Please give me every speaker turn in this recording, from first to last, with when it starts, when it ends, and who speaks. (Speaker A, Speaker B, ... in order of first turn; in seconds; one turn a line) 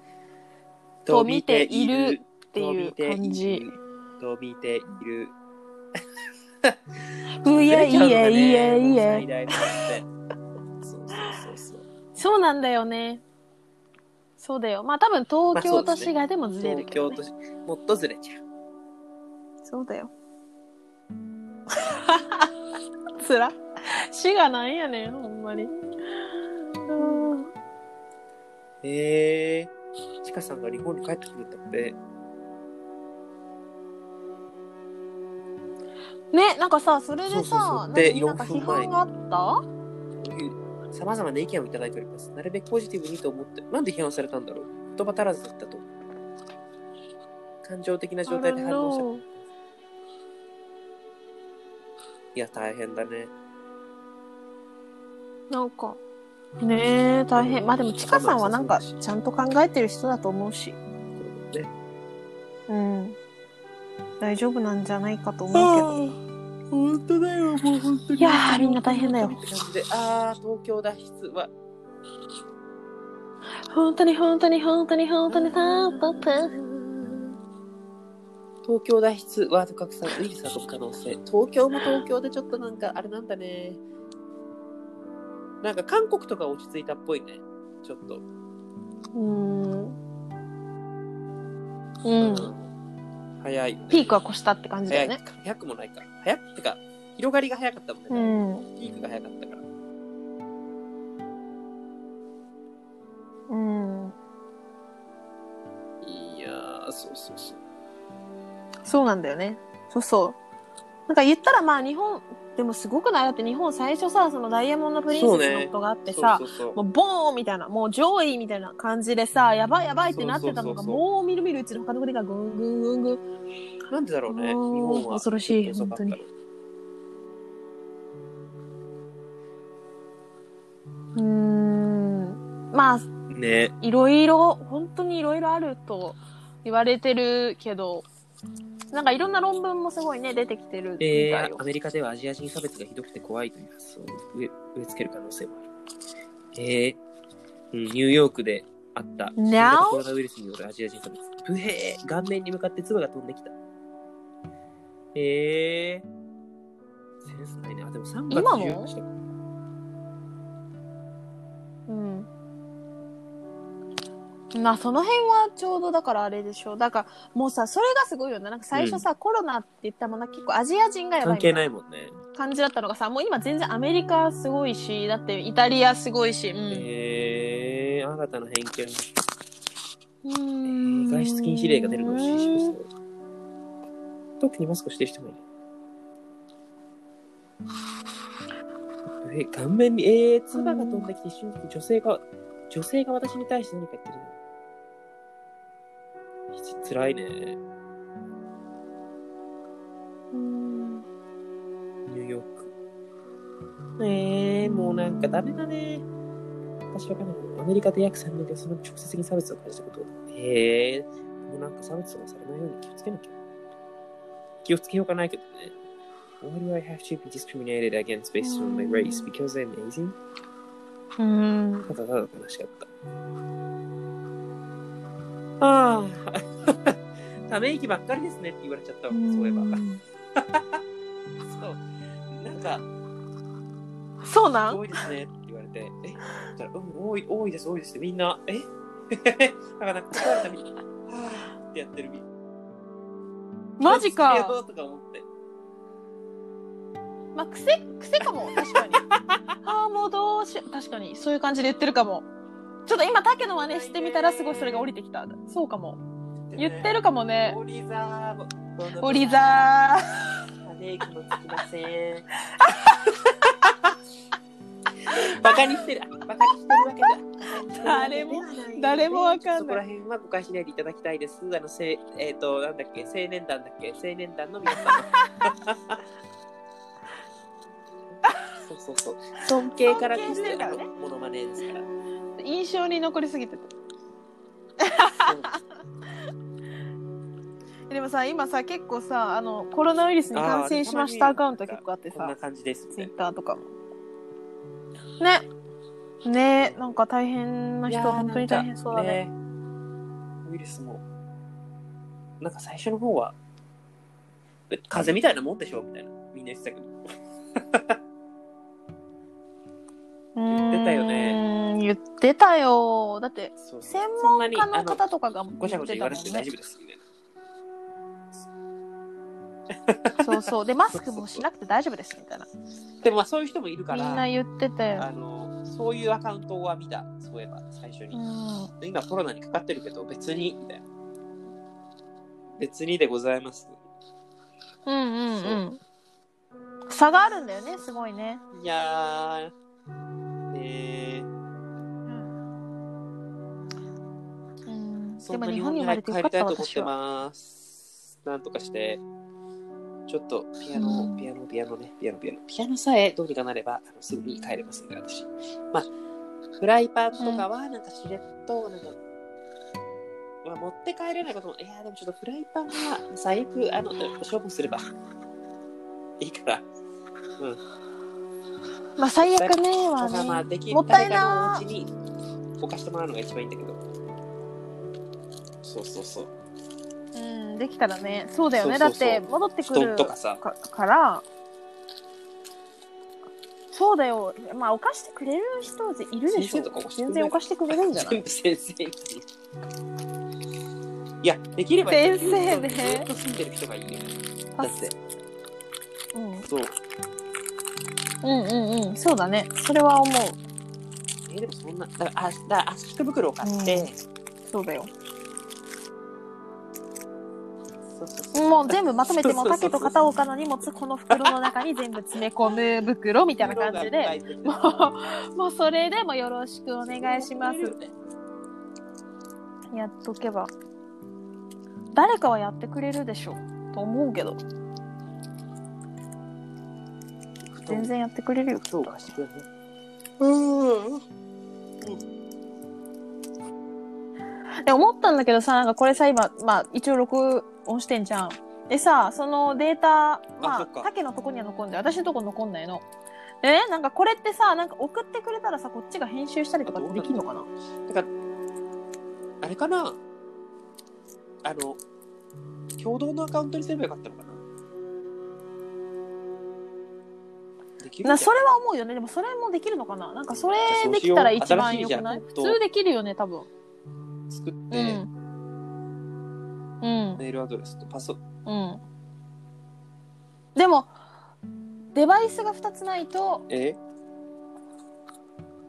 Speaker A: 1.0-5.3
Speaker B: 1.1-3.7
Speaker B: 7.4-9.7
Speaker A: 7.5-10.1
Speaker A: 10.8-11.8
Speaker B: 12.2-13.2
Speaker B: 14.4-17.2
Speaker A: 15.5-18.4
Speaker B: 19.6-20.1
Speaker B: 21.7-22.5
Speaker B: 23.2-27.5
Speaker A: 28.8-29.7
Speaker A: 30.2-32.0
Speaker B: 36.3-39.6
Speaker A: 37.3-39.0
Speaker A: 40.2-45.9
Speaker A: 47.6-49.4
Speaker B: 48.2-49.2
Speaker A: 52.3-53.3
Speaker B: 55.5-56.0
Speaker B: 56.6-60.8
Speaker A: 57.3-59.0
Speaker A: 61.2-61.7
Speaker B: 62.7-63.2
Speaker B: 64.2-66.2
Speaker A: 65.5-66.1
Speaker A: 66.7-71.5
Speaker B: 68.2-69.4
Speaker B: 73.7-76.5
Speaker A: 75.3-77.3
Speaker A: 78.6-83.8
Speaker A: 85.6-88.2
Speaker B: 89.1-90.0
Speaker B: 92.0-92.5
Speaker A: 92.2-92.7
Speaker A: 93.4-94.2
Speaker B: 93.9-95.2
Speaker A: 94.9-99.6
Speaker B: 98.1-98.7
Speaker B: 103.5-104.2
Speaker A: 106.0-107.6
Speaker B: 108.8-110.4
Speaker B: 111.1-123.2
Speaker A: 115.1-116.8
Speaker A: 120.1-121.0
Speaker A: 123.9-126.3
Speaker B: 124.3-126.2
Speaker B: 131.1-133.1
Speaker A: 133.3-133.7
Speaker B: 133.8-138.1
Speaker B: 138.9-141.6
Speaker A: 141.0-145.6
Speaker A: 146.5-147.0
Speaker A: 147.7-153.5
Speaker B: 149.4-150.0
Speaker A: 155.1-156.1
Speaker A: 157.2-159.1
Speaker B: 158.3-158.9
Speaker B: 161.9-162.3
Speaker B: 164.5-171.6
Speaker A: 168.7-169.1
Speaker A: 171.2-172.2
Speaker B: 172.3-176.9
Speaker A: 176.7-179.1
Speaker B: 180.2-182.7
Speaker A: 180.6-182.9
Speaker A: 184.4-185.4
Speaker A: 189.2-194.3
Speaker B: 190.5-191.1
Speaker A: 196.5-197.6
Speaker B: 200.3-201.1
Speaker A: 202.1-202.7
Speaker A: 204.0-206.1
Speaker B: 204.6-205.6
Speaker A: 206.9-213.3
Speaker A: 214.6-215.7
Speaker A: 216.4-220.2
Speaker B: 218.4-219.3
Speaker B: 221.2-221.9
Speaker A: 221.9-222.9
Speaker A: 225.6-229.8
Speaker B: 229.1-230.0
Speaker A: 230.3-230.8
Speaker A: 231.5-232.8
Speaker B: 234.2-234.8
Speaker A: 234.7-242.2
Speaker B: 243.8-244.6
Speaker A: 243.8-245.3
Speaker B: 247.3-249.0
Speaker A: 248.5-249.4
Speaker B: 249.6-252.3
Speaker B: 252.8-256.0
Speaker A: 253.7-254.9
Speaker A: 256.5-259.5
Speaker B: 256.6-257.6
Speaker B: 259.0-260.3
Speaker A: 260.6-262.3
Speaker B: 262.6-262.9
Speaker A: 265.1-276.0
Speaker B: 267.6-269.8
Speaker B: 274.8-275.5
Speaker A: 278.1-281.9
Speaker B: 279.8-280.9
Speaker B: 282.4-283.7
Speaker B: 284.8-285.5
Speaker A: 285.1-285.6
Speaker B: 287.9-292.3
Speaker A: 290.3-293.1
Speaker B: 292.9-293.7
Speaker B: 295.2-295.4
Speaker B: 296.2-299.2
Speaker A: 296.6-296.9
Speaker A: 297.9-299.3
Speaker A: 300.4-301.0
Speaker A: 302.4-303.4
Speaker A: 304.7-306.9
Speaker A: 307.7-308.0
Speaker B: 310.4-316.5
Speaker A: 310.5-311.4
Speaker A: 313.6-315.0
Speaker A: 315.6-317.0
Speaker A: 319.7-321.4
Speaker B: 320.2-322.5
Speaker A: 323.0-324.3
Speaker B: 323.9-325.1
Speaker A: 324.9-328.2
Speaker B: 328.1-328.7
Speaker A: 328.8-330.8
Speaker A: 332.6-333.8
Speaker B: 334.9-335.8
Speaker B: 336.9-338.4
Speaker A: 338.5-339.5
Speaker A: 340.5-341.3
Speaker B: 342.1-342.3
Speaker B: 344.6-346.9
Speaker A: 345.2-349.0
Speaker A: 350.1-355.9
Speaker B: 350.7-351.3
Speaker A: 356.6-359.0
Speaker B: 357.2-357.4
Speaker A: 360.4-364.8
Speaker A: 366.2-366.6
Speaker B: 369.0-371.6
Speaker A: 369.2-371.9
Speaker A: 372.6-373.8
Speaker A: 375.6-376.3
Speaker B: 377.1-381.2
Speaker A: 378.6-380.4
Speaker B: 383.7-388.2
Speaker A: 386.3-389.2
Speaker A: 391.2-394.9
Speaker B: 391.9-393.1
Speaker B: 396.1-396.5
Speaker A: 396.4-396.7
Speaker B: 398.2-400.4
Speaker A: 401.3-404.0
Speaker B: 403.4-403.9
Speaker B: 404.5-404.9
Speaker A: 407.9-410.0
Speaker B: 408.3-417.7
Speaker A: 411.1-411.4
Speaker A: 413.4-414.8
Speaker A: 416.8-417.9
Speaker B: 419.7-420.5
Speaker B: 421.9-424.4
Speaker A: 427.5-427.9
Speaker B: 427.7-429.1
Speaker A: 428.6-429.5
Speaker A: 430.2-431.0
Speaker B: 434.6-442.8
Speaker A: 440.4-440.9
Speaker B: 443.4-447.5
Speaker A: 446.6-447.2
Speaker A: 449.4-450.0
Speaker A: 451.4-451.8
Speaker A: 452.8-454.4
Speaker A: 457.8-458.3
Speaker B: 458.0-463.5
Speaker A: 460.6-462.6
Speaker A: 464.3-465.0
Speaker B: 464.7-465.1
Speaker B: 466.8-467.2
Speaker A: 467.2-468.2
Speaker B: 468.4-468.8
Speaker B: 470.5-470.9
Speaker B: 471.9-473.4
Speaker A: 473.5-473.8